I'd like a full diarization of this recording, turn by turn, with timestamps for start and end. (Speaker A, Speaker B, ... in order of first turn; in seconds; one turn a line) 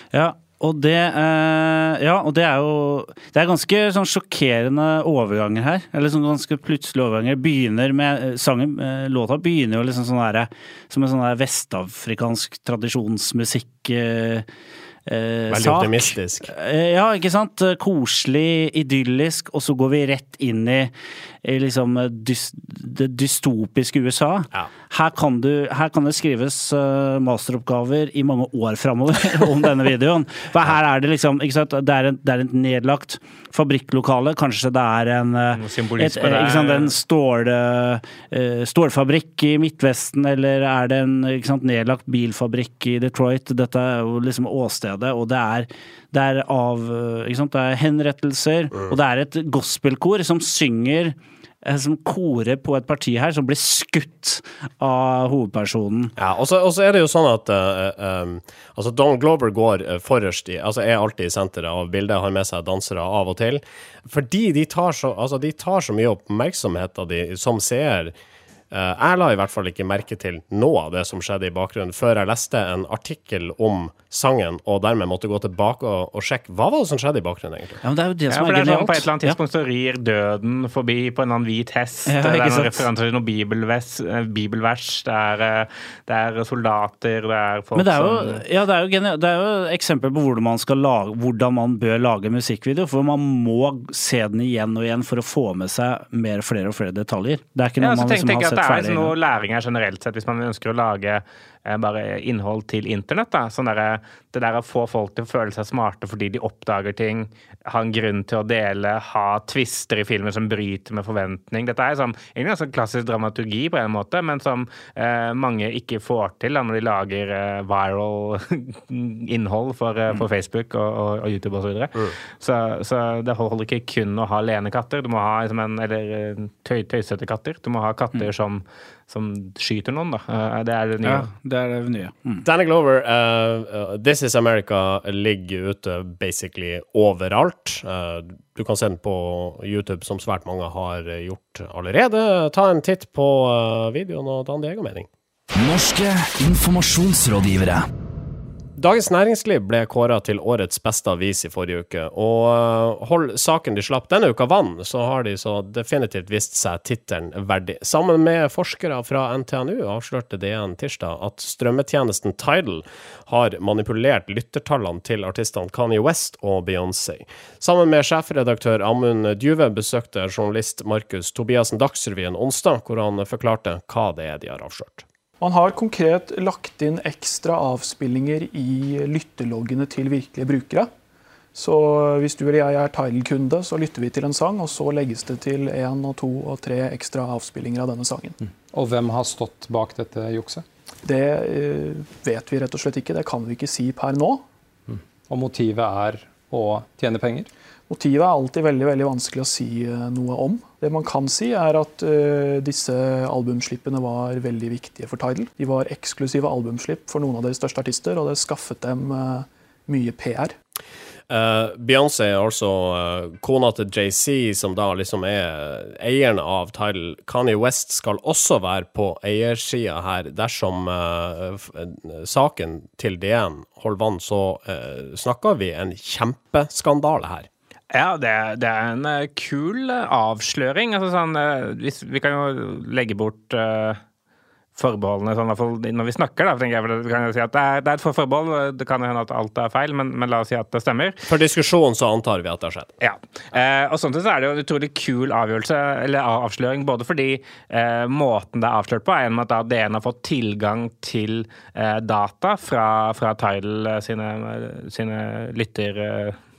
Speaker A: 0.1-14.4
Speaker A: 15.1-20.9
Speaker B: 15.5-16.5
Speaker A: 21.4-56.1
Speaker C: 35.5-36.9
Speaker B: 56.1-68.1
Speaker B: 68.7-77.8
Speaker A: 77.8-79.4
Speaker C: 78.3-88.4
Speaker A: 82.1-82.8
Speaker A: 87.7-99.1
Speaker C: 97.8-131.3
Speaker A: 131.0-132.4
Speaker B: 132.4-145.1
Speaker D: 145.5-147.8
Speaker B: 148.8-175.0
Speaker E: 175.4-180.9
Speaker E: 181.5-188.4
Speaker F: 188.7-190.6
Speaker E: 191.0-194.4
Speaker F: 195.3-197.5
Speaker E: 197.9-210.5
Speaker B: 211.3-227.5
Speaker C: 227.9-234.0
Speaker C: 234.8-241.2
Speaker B: 241.3-242.9
Speaker C: 243.0-256.4